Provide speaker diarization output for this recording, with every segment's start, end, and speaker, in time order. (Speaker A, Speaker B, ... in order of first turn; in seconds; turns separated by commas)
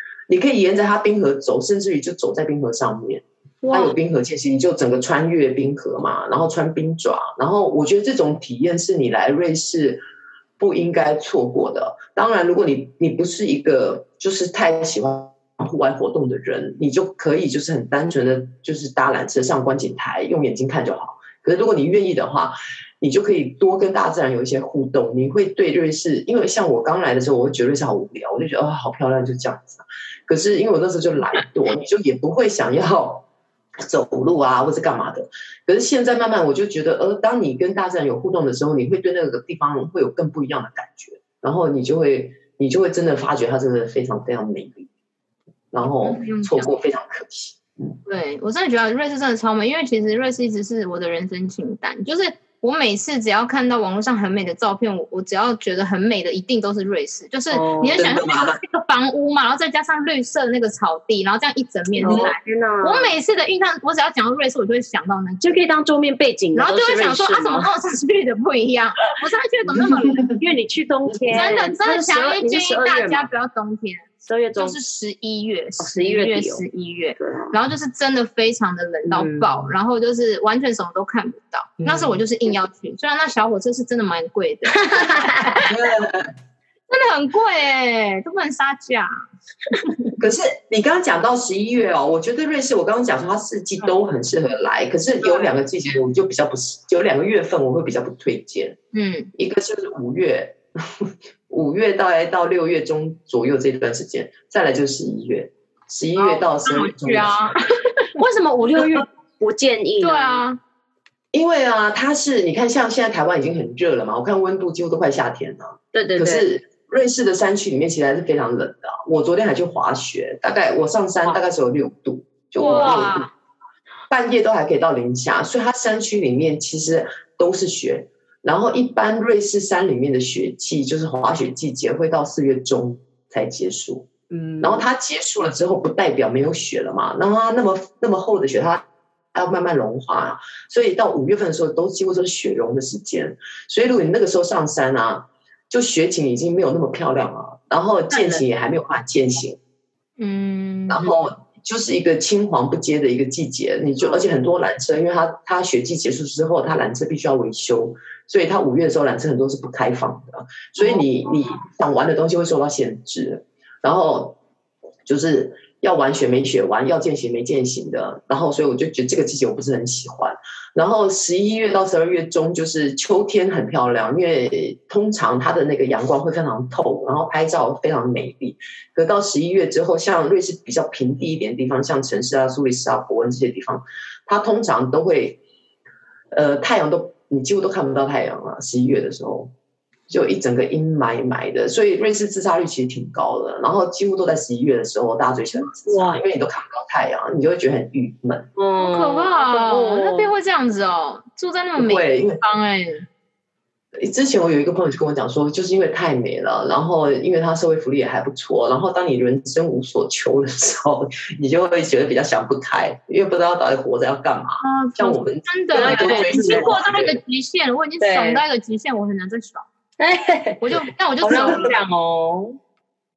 Speaker A: 0.3-10.0, Speaker B: 3.6-3.9, Speaker A: 10.6-33.2, Speaker A: 33.8-44.9, Speaker A: 45.7-47.9, Speaker B: 46.0-46.7, Speaker B: 48.0-65.6, Speaker C: 57.5-58.1, Speaker A: 58.0-58.6, Speaker C: 62.0-63.1, Speaker A: 62.0-62.3, Speaker C: 65.4-67.7, Speaker B: 66.5-70.3, Speaker C: 70.2-73.3, Speaker B: 71.3-85.7, Speaker C: 74.2-74.8, Speaker C: 75.8-76.6, Speaker C: 77.2-77.5, Speaker C: 79.0-79.7, Speaker A: 81.8-82.1, Speaker C: 84.8-85.5, Speaker A: 85.6-86.3, Speaker B: 86.9-89.1, Speaker B: 89.7-90.1, Speaker A: 90.2-98.8, Speaker B: 98.9-99.3, Speaker A: 99.3-107.5, Speaker B: 106.2-107.7, Speaker C: 108.2-110.4, Speaker B: 110.0-110.6, Speaker A: 111.3-123.3, Speaker C: 115.9-116.5, Speaker B: 122.6-123.3, Speaker C: 122.6-123.1, Speaker A: 124.1-134.1, Speaker C: 134.3-134.9, Speaker A: 134.6-149.6, Speaker C: 148.1-148.4, Speaker B: 150.2-151.0, Speaker A: 150.9-164.4, Speaker A: 165.1-185.4, Speaker A: 186.3-189.5, Speaker A: 190.1-198.5, Speaker C: 195.6-196.2, Speaker C: 198.6-200.3, Speaker B: 198.8-203.1, Speaker A: 201.8-202.4, Speaker A: 204.0-217.2, Speaker B: 214.6-219.7, Speaker C: 215.7-216.7, Speaker C: 218.0-218.4, Speaker C: 220.0-222.6, Speaker B: 220.6-221.7, Speaker A: 221.3-221.7